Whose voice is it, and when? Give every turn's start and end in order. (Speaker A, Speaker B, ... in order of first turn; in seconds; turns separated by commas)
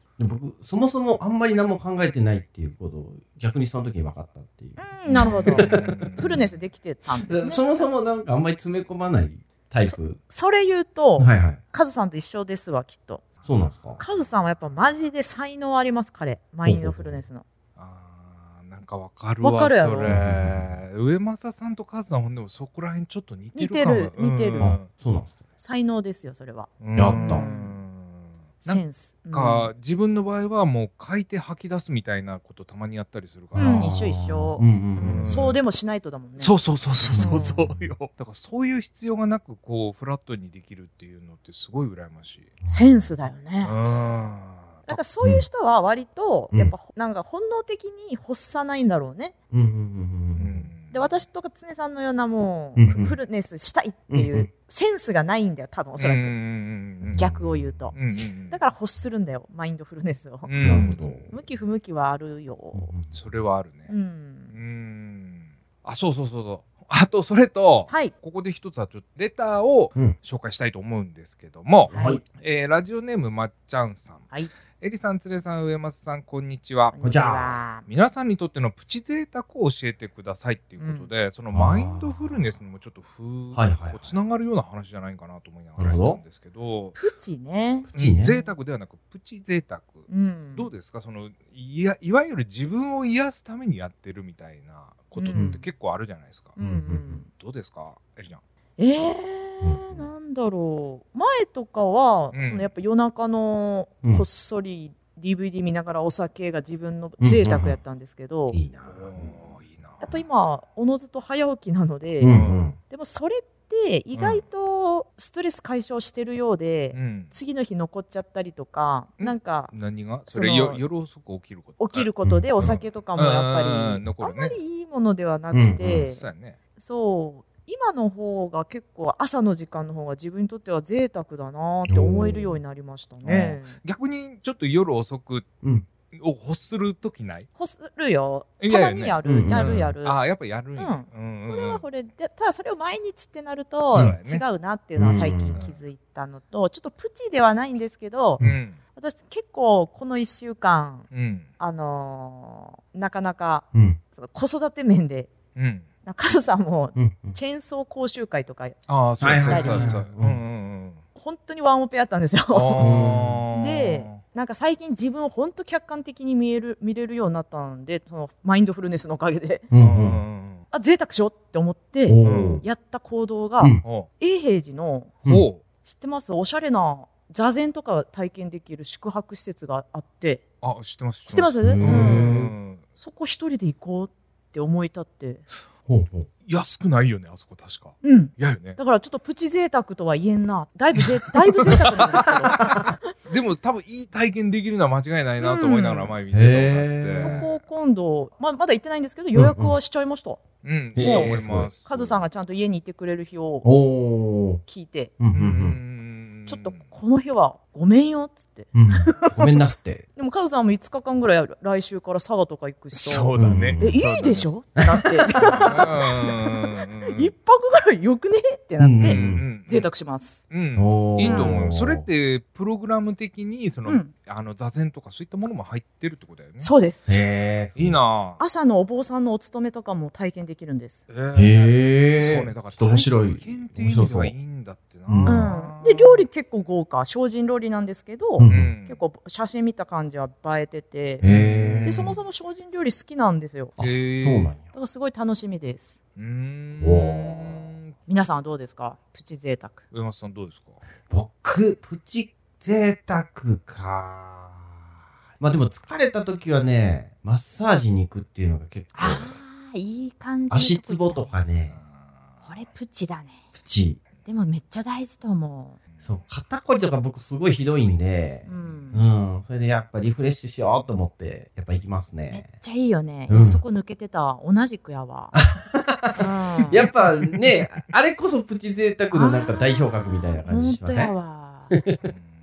Speaker A: 0.2-6.3, Speaker B: 4.8-7.9, Speaker C: 5.2-6.5, Speaker A: 7.2-10.2, Speaker B: 9.8-13.2, Speaker A: 11.2-11.6, Speaker A: 13.4-14.0, Speaker B: 14.0-17.4, Speaker A: 16.6-17.2, Speaker C: 17.8-24.9, Speaker B: 19.4-20.2, Speaker A: 20.0-20.7, Speaker B: 23.5-24.8, Speaker A: 24.6-25.3, Speaker B: 25.6-27.8, Speaker C: 26.8-34.0, Speaker A: 26.9-27.4, Speaker B: 28.6-29.7, Speaker A: 33.5-35.6, Speaker B: 33.5-36.5, Speaker C: 35.0-35.5, Speaker C: 36.4-42.5, Speaker A: 37.1-37.9, Speaker B: 37.1-37.7, Speaker A: 42.6-43.1, Speaker B: 42.7-43.8, Speaker C: 43.6-45.0, Speaker B: 44.9-49.3, Speaker A: 49.5-50.7, Speaker C: 50.4-51.0, Speaker B: 50.9-56.4, Speaker A: 52.8-53.2, Speaker A: 54.1-54.5, Speaker C: 56.0-57.3, Speaker A: 57.0-57.9, Speaker B: 57.1-62.9, Speaker C: 57.9-58.6, Speaker C: 60.4-61.3, Speaker A: 60.6-61.3, Speaker A: 62.7-63.2, Speaker C: 63.1-63.9, Speaker B: 63.9-64.5, Speaker C: 64.5-74.3, Speaker B: 67.9-68.1, Speaker A: 71.9-72.2, Speaker B: 71.9-72.2, Speaker C: 74.8-77.2, Speaker B: 76.9-77.8, Speaker A: 77.0-77.6, Speaker C: 77.8-87.0, Speaker B: 80.8-81.1, Speaker A: 81.5-82.4, Speaker A: 83.5-84.1, Speaker A: 85.8-86.2, Speaker B: 87.0-88.4, Speaker A: 87.9-88.4, Speaker C: 87.9-96.6, Speaker B: 90.1-90.7, Speaker B: 95.1-95.6, Speaker A: 95.3-95.6, Speaker B: 96.5-97.2, Speaker A: 96.6-97.2, Speaker C: 97.3-98.4, Speaker B: 98.8-108.6, Speaker A: 99.6-100.1, Speaker C: 102.3-102.7, Speaker A: 107.2-107.8, Speaker A: 108.5-109.3, Speaker C: 108.9-110.0, Speaker B: 110.0-119.7, Speaker A: 112.2-112.8, Speaker C: 112.2-112.6, Speaker C: 114.1-114.4, Speaker C: 116.9-117.3, Speaker C: 119.2-124.6, Speaker B: 120.3-120.8, Speaker B: 121.8-126.2, Speaker A: 122.2-122.8, Speaker A: 125.5-126.1, Speaker C: 125.9-126.6, Speaker B: 126.8-133.8, Speaker A: 131.8-132.6, Speaker C: 133.2-135.4, Speaker C: 136.1-137.5, Speaker B: 137.6-140.2, Speaker C: 138.6-141.8, Speaker A: 139.2-139.9, Speaker B: 140.8-148.4, Speaker C: 143.9-144.4, Speaker A: 144.9-145.6, Speaker C: 145.0-145.8, Speaker C: 148.4-148.8, Speaker B: 148.9-151.1, Speaker C: 151.1-151.4, Speaker B: 151.6-155.3, Speaker A: 153.7-154.0, Speaker C: 155.5-155.8, Speaker B: 156.0-158.8, Speaker A: 156.9-157.4, Speaker C: 158.9-161.0, Speaker A: 159.2-160.4, Speaker B: 159.4-160.0, Speaker B: 161.1-169.7, Speaker C: 162.5-164.2, Speaker A: 162.8-163.4, Speaker A: 169.7-170.2, Speaker C: 169.7-170.6, Speaker B: 170.7-175.1, Speaker A: 172.1-172.6, Speaker C: 172.2-172.6, Speaker C: 173.8-174.1, Speaker C: 175.2-175.6, Speaker B: 175.8-180.4, Speaker C: 180.6-182.8, Speaker B: 181.3-182.4, Speaker A: 181.6-182.5, Speaker B: 182.9-185.4, Speaker A: 185.9-186.3, Speaker C: 186.4-188.8, Speaker B: 188.0-192.9, Speaker C: 193.3-197.4, Speaker B: 195.4-196.2, Speaker A: 196.3-197.5, Speaker B: 197.2-200.4, Speaker A: 199.3-199.8, Speaker C: 200.6-202.2, Speaker A: 200.9-201.7, Speaker B: 201.0-203.7, Speaker A: 203.6-204.6, Speaker B: 204.6-205.1, Speaker A: 205.2-205.8, Speaker C: 205.3-206.8, Speaker B: 206.5-209.6, Speaker A: 208.7-210.0, Speaker B: 210.2-220.4, Speaker C: 212.9-214.5, Speaker A: 213.3-214.0, Speaker A: 214.8-215.6, Speaker C: 215.5-217.3, Speaker A: 218.8-219.4, Speaker C: 219.1-219.9, Speaker C: 220.5-226.7, Speaker A: 220.7-222.1, Speaker B: 221.2-221.6, Speaker B: 223.8-224.1, Speaker B: 226.6-227.2, Speaker A: 227.1-228.0, Speaker C: 227.8-228.4, Speaker B: 228.4-231.1, Speaker C: 231.1-236.2, Speaker A: 231.3-234.3, Speaker A: 235.1-235.5, Speaker B: 235.2-241.3, Speaker A: 238.4-238.7, Speaker C: 238.4-239.0, Speaker A: 241.2-242.2, Speaker C: 241.2-242.2, Speaker B: 241.8-243.8, Speaker A: 243.8-244.7, Speaker C: 243.8-244.5, Speaker B: 244.7-246.0, Speaker C: 246.2-247.9, Speaker A: 246.8-247.7, Speaker B: 248.1-249.8, Speaker C: 249.9-250.8, Speaker A: 251.1-254.7, Speaker A: 255.4-259.4, Speaker B: 258.9-261.4, Speaker A: 260.5-261.8, Speaker B: 262.4-263.4, Speaker A: 263.5-264.0, Speaker B: 264.2-265.8, Speaker A: 266.0-272.4, Speaker B: 268.4-269.0, Speaker B: 272.3-275.3, Speaker A: 273.3-273.6, Speaker A: 275.3-281.1, Speaker B: 276.1-276.9, Speaker B: 279.1-281.7, Speaker A: 281.7-282.0, Speaker C: 282.0-282.3